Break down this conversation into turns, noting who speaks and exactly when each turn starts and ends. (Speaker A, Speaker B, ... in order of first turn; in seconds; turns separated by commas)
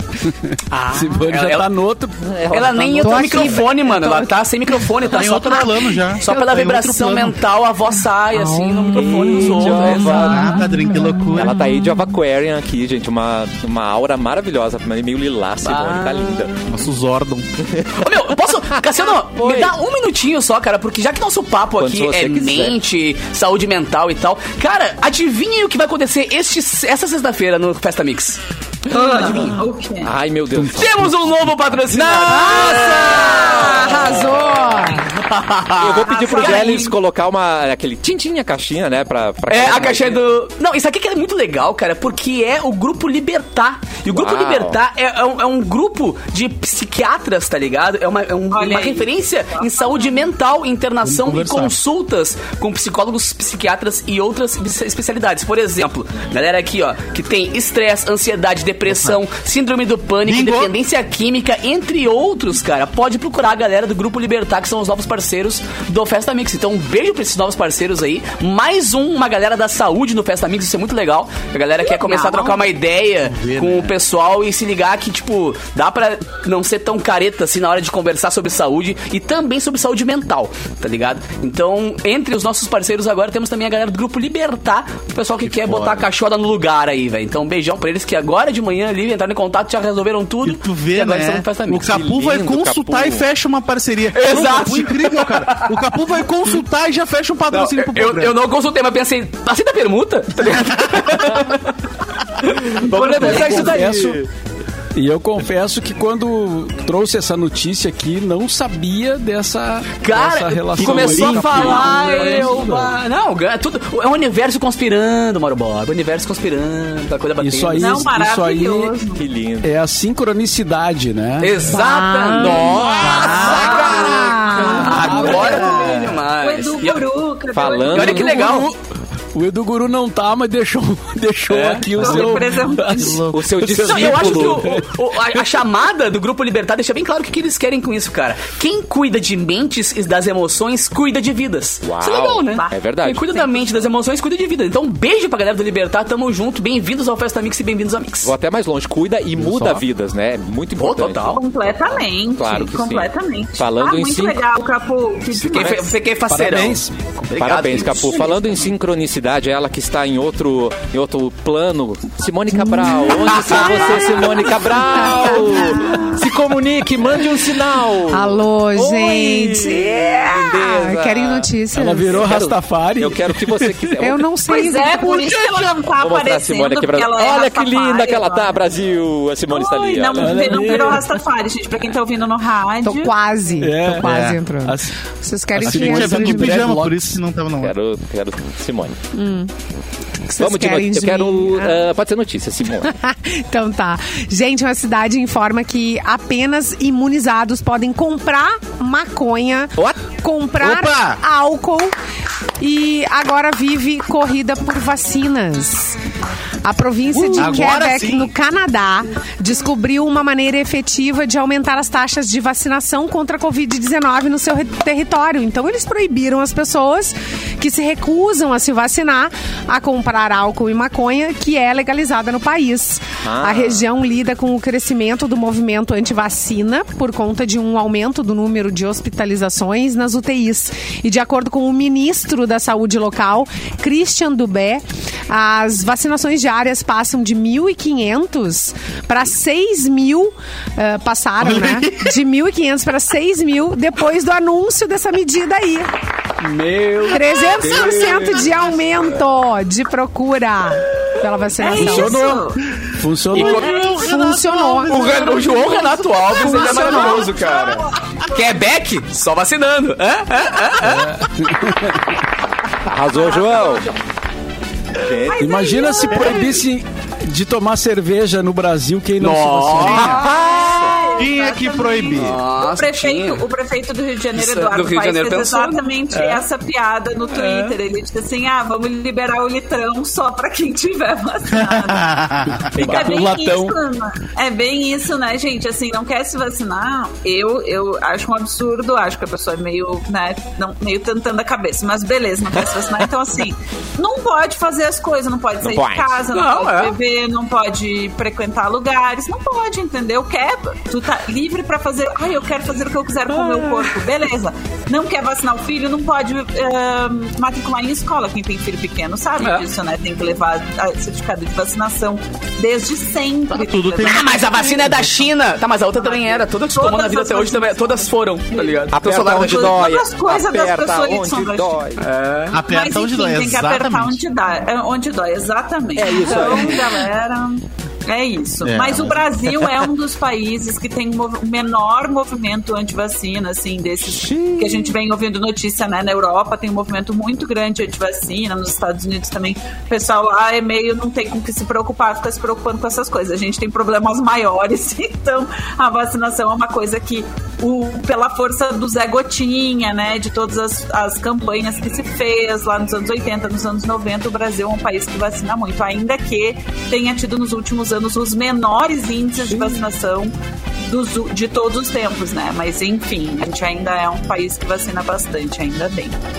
Speaker A: 0.5-3.1, Speaker B: 0.7-1.0, Speaker C: 0.7-1.7, Speaker B: 2.2-3.7, Speaker C: 2.5-10.5, Speaker D: 3.0-4.3, Speaker E: 5.0-7.4, Speaker D: 8.3-11.9, Speaker B: 8.9-10.6, Speaker E: 10.0-11.6, Speaker B: 11.3-16.5, Speaker C: 15.6-16.5, Speaker E: 16.7-17.4, Speaker B: 17.6-19.8, Speaker C: 17.9-29.6, Speaker B: 21.8-22.8, Speaker F: 28.9-30.1, Speaker B: 30.0-35.0, Speaker C: 30.6-34.0, Speaker D: 32.3-35.1, Speaker E: 35.1-36.0, Speaker B: 35.8-40.2, Speaker F: 36.0-37.0, Speaker C: 36.3-36.8, Speaker C: 39.5-92.0, Speaker B: 44.1-44.8, Speaker F: 48.5-50.2, Speaker E: 51.0-51.7, Speaker E: 58.9-59.2, Speaker E: 60.2-60.7, Speaker F: 71.8-72.6, Speaker E: 73.3-73.9, Speaker B: 85.7-86.0, Speaker E: 90.4-98.4, Speaker B: 91.8-93.2, Speaker C: 94.1-95.8, Speaker C: 97.5-101.7, Speaker E: 100.5-101.1, Speaker C: 102.4-104.1, Speaker B: 102.8-104.3, Speaker A: 102.9-104.2, Speaker A: 104.9-113.0, Speaker C: 110.0-118.1, Speaker B: 110.8-111.9, Speaker F: 111.5-112.5, Speaker A: 117.4-119.0, Speaker F: 117.8-119.2, Speaker B: 119.2-119.8, Speaker A: 119.6-121.7, Speaker C: 121.4-127.0, Speaker D: 121.6-125.5, Speaker E: 122.9-126.0, Speaker B: 123.5-124.2, Speaker F: 123.7-124.0, Speaker A: 124.6-125.8, Speaker F: 124.9-128.2, Speaker B: 127.5-128.3, Speaker C: 127.9-128.7, Speaker A: 127.9-128.8, Speaker A: 129.3-134.9, Speaker C: 131.5-132.3, Speaker F: 132.0-133.2, Speaker E: 132.9-134.4, Speaker B: 133.3-134.8, Speaker C: 133.6-148.3, Speaker B: 141.8-143.4, Speaker F: 142.5-143.9, Speaker B: 148.2-154.4, Speaker A: 149.4-149.8, Speaker C: 150.8-151.4, Speaker F: 151.2-156.0, Speaker C: 155.3-158.4, Speaker B: 155.5-155.9, Speaker A: 156.3-157.1, Speaker B: 157.3-171.5, Speaker D: 162.6-166.1, Speaker C: 163.5-163.8, Speaker D: 168.1-172.2, Speaker A: 171.7-173.9, Speaker B: 172.1-174.2, Speaker D: 174.0-175.4, Speaker F: 174.5-178.6, Speaker E: 175.1-175.7, Speaker B: 175.9-180.9, Speaker F: 179.5-183.1, Speaker A: 180.2-181.2, Speaker D: 182.8-186.7, Speaker A: 183.6-184.9, Speaker E: 184.0-184.4, Speaker A: 185.5-187.2, Speaker E: 185.6-187.7, Speaker B: 187.6-189.0, Speaker D: 189.1-189.5, Speaker D: 190.2-191.8, Speaker B: 190.4-192.9, Speaker D: 192.8-201.9, Speaker E: 200.6-201.2, Speaker D: 202.6-206.0, Speaker D: 206.6-245.9, Speaker E: 207.1-208.3, Speaker B: 223.2-223.8, Speaker E: 241.4-242.1, Speaker A: 246.4-248.5, Speaker D: 247.1-252.3, Speaker F: 251.6-252.6, Speaker A: 251.7-253.6, Speaker E: 253.3-257.2, Speaker C: 253.3-253.8, Speaker D: 253.3-257.3, Speaker C: 254.8-261.2, Speaker F: 256.3-257.8, Speaker A: 260.8-262.0, Speaker B: 262.9-263.9, Speaker F: 263.1-264.0, Speaker B: 265.0-265.7, Speaker F: 265.1-266.4, Speaker A: 265.4-270.2, Speaker E: 266.1-266.6, Speaker C: 269.2-270.9, Speaker E: 269.8-270.3, Speaker F: 270.2-282.2, Speaker B: 270.2-271.0, Speaker E: 271.2-272.4, Speaker C: 272.1-273.4, Speaker C: 274.3-276.4, Speaker C: 277.4-277.7, Speaker E: 281.5-282.8, Speaker A: 282.8-283.7, Speaker C: 282.8-283.3, Speaker F: 282.8-314.4, Speaker B: 295.6-296.2, Speaker C: 296.3-297.0, Speaker C: 303.3-304.0, Speaker C: 309.4-309.6, Speaker E: 313.5-315.2, Speaker C: 314.0-319.8, Speaker F: 316.0-321.8, Speaker B: 318.9-322.0, Speaker C: 322.0-322.6, Speaker E: 322.5-324.2, Speaker F: 322.6-360.3, Speaker B: 325.9-327.0, Speaker E: 328.6-329.2, Speaker B: 334.0-334.9, Speaker B: 359.4-359.8, Speaker F: 360.9-366.2